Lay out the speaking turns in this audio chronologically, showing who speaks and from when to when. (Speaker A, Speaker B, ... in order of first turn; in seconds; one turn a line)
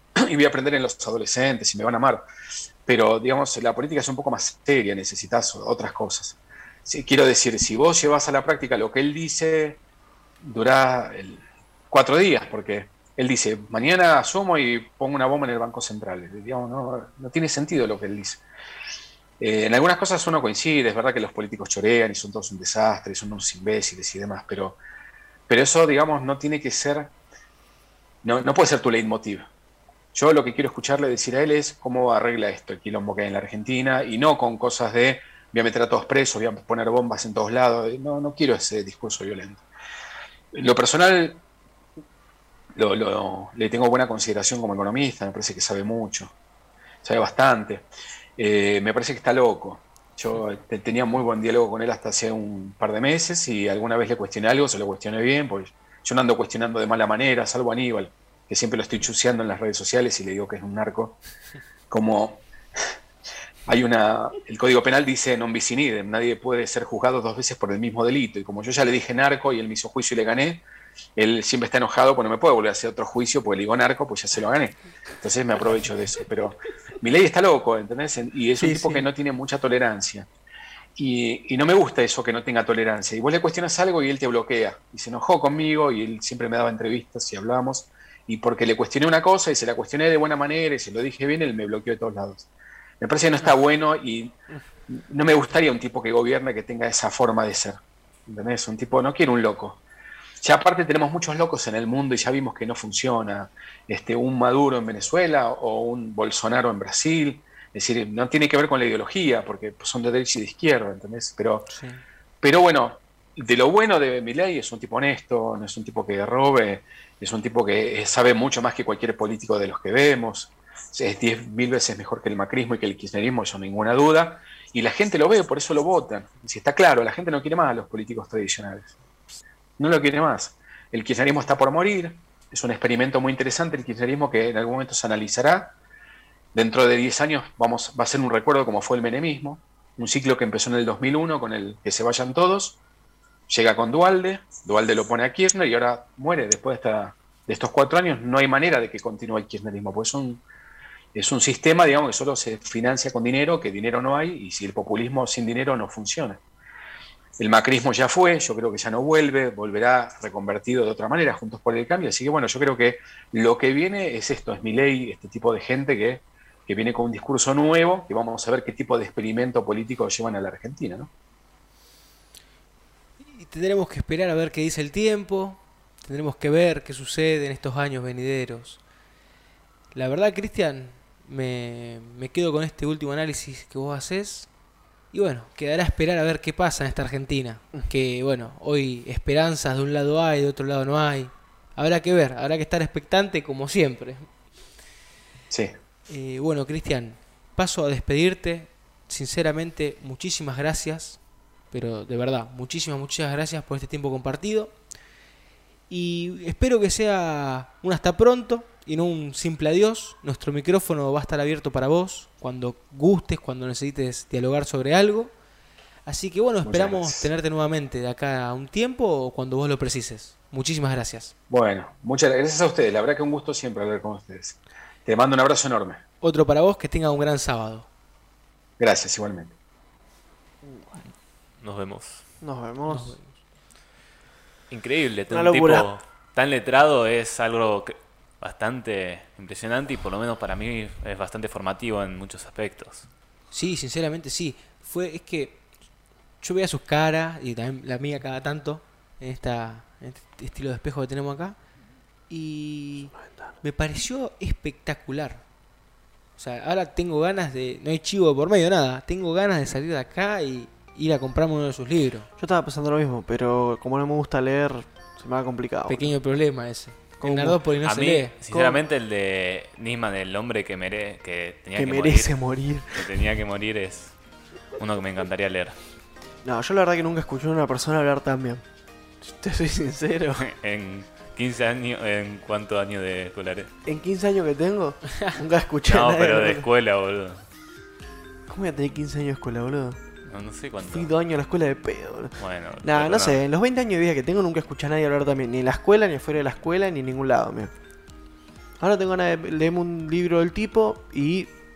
Speaker A: 0.2-2.2
Speaker A: 2.9-9.8
Speaker A: 10.4-18.4
Speaker A: 19.4-24.8
Speaker A: 25.5-27.1
Speaker A: 28.2-29.5
Speaker A: 30.1-39.6
Speaker A: 40.5-41.4
Speaker A: 42.8-46.3
Speaker A: 47.0-47.9
Speaker A: 48.4-61.2
Speaker A: 61.9-62.4
Speaker A: 63.7-70.6
Speaker A: 71.2-80.3
Speaker B: 78.6-79.0
Speaker A: 81.0-92.5
Speaker A: 93.0-94.3
Speaker A: 94.9-99.8
Speaker A: 100.4-111.7
Speaker B: 111.7-112.0
Speaker A: 112.4-128.9
Speaker A: 129.8-135.7
Speaker A: 136.5-142.8
Speaker A: 143.5-150.4
Speaker A: 151.1-156.4
Speaker A: 157.4-171.1
Speaker B: 173.2-178.8
Speaker B: 179.9-184.5
Speaker B: 185.1-194.3
Speaker B: 196.1-201.2
Speaker B: 201.7-204.7
Speaker B: 205.9-215.3
Speaker B: 216.1-221.3
Speaker A: 216.6-217.3
Speaker A: 221.5-226.0
Speaker B: 226.2-227.9
Speaker A: 228.8-229.5
Speaker C: 230.6-230.9
Speaker D: 231.6-232.2
Speaker C: 232.4-233.2
Speaker B: 232.9-233.3
Speaker D: 234.7-243.1
Speaker C: 235.3-235.9
Speaker B: 243.5-245.6
Speaker B: 246.4-251.6
Speaker B: 252.3-255.4
Speaker B: 256.4-262.3
Speaker C: 262.4-266.1
Speaker B: 265.9-268.3
Speaker C: 267.2-267.6
Speaker D: 267.8-274.1
Speaker C: 268.5-268.8
Speaker C: 271.7-273.1
Speaker D: 274.8-275.8
Speaker C: 276.4-278.6
Speaker C: 279.2-280.4
Speaker D: 280.4-283.7
Speaker C: 283.9-286.6
Speaker D: 285.9-287.4
Speaker C: 288.5-290.0
Speaker D: 290.2-291.1
Speaker C: 290.8-297.7
Speaker D: 292.4-293.4
Speaker C: 298.8-301.5